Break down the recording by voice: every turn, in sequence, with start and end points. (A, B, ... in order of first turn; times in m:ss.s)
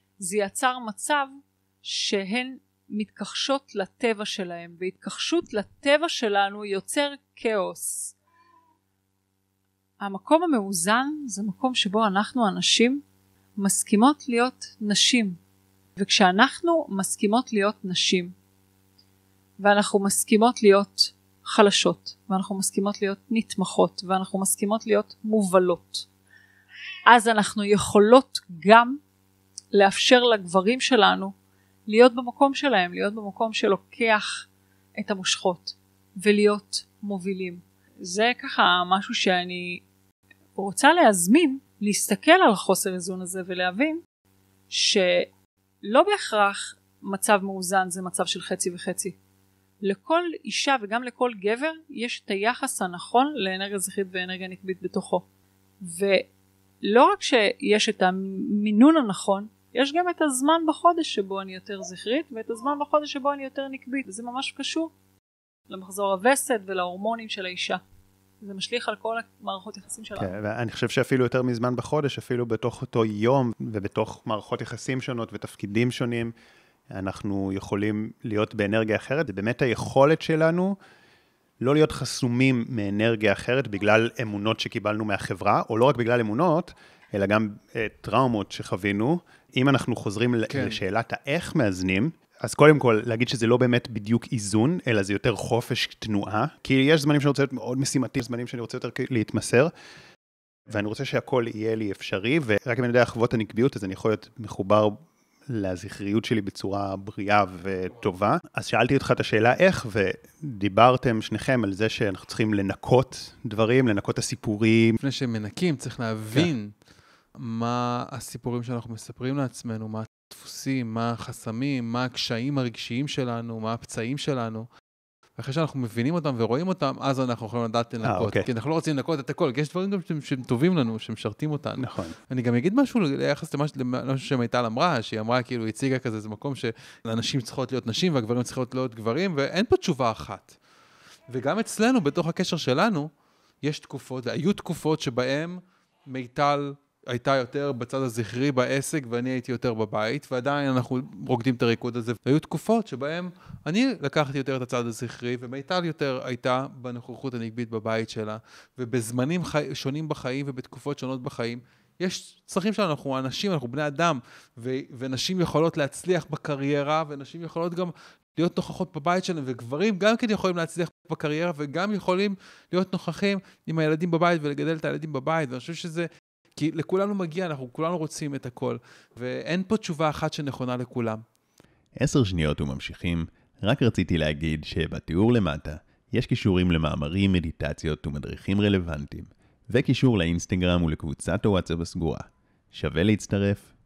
0:00.2-0:08.2 A
0:10.0-0:13.0 A
0:13.6-0:15.4 A
0:16.0-0:18.3 A
0:19.6-0:26.1 A
0:27.1-0:29.0 A
0:29.7-0:31.3 A
0:31.9-0:39.8 A
0:40.6-0:44.0 A
0:44.7-0:45.3 A
0:45.8-0:49.2 A
0:49.8-0:55.2 A
0:55.8-0:56.3 A
0:56.8-1:04.9 A
1:05.7-1:07.8 A
1:08.4-1:10.4 A
1:10.2-1:16.3 B
1:16.9-1:20.8 B
1:21.6-1:39.7 B
1:30.5-1:30.8 C
1:40.7-1:45.0 B
1:45.5-1:55.0 B
1:55.0-1:56.7 C
1:57.4-2:04.7 C
2:05.4-2:20.6 C
2:08.0-2:08.5 B
2:11.8-2:12.1 B
2:21.3-2:23.1 C
2:23.6-3:01.2 C
3:02.0-3:13.7 B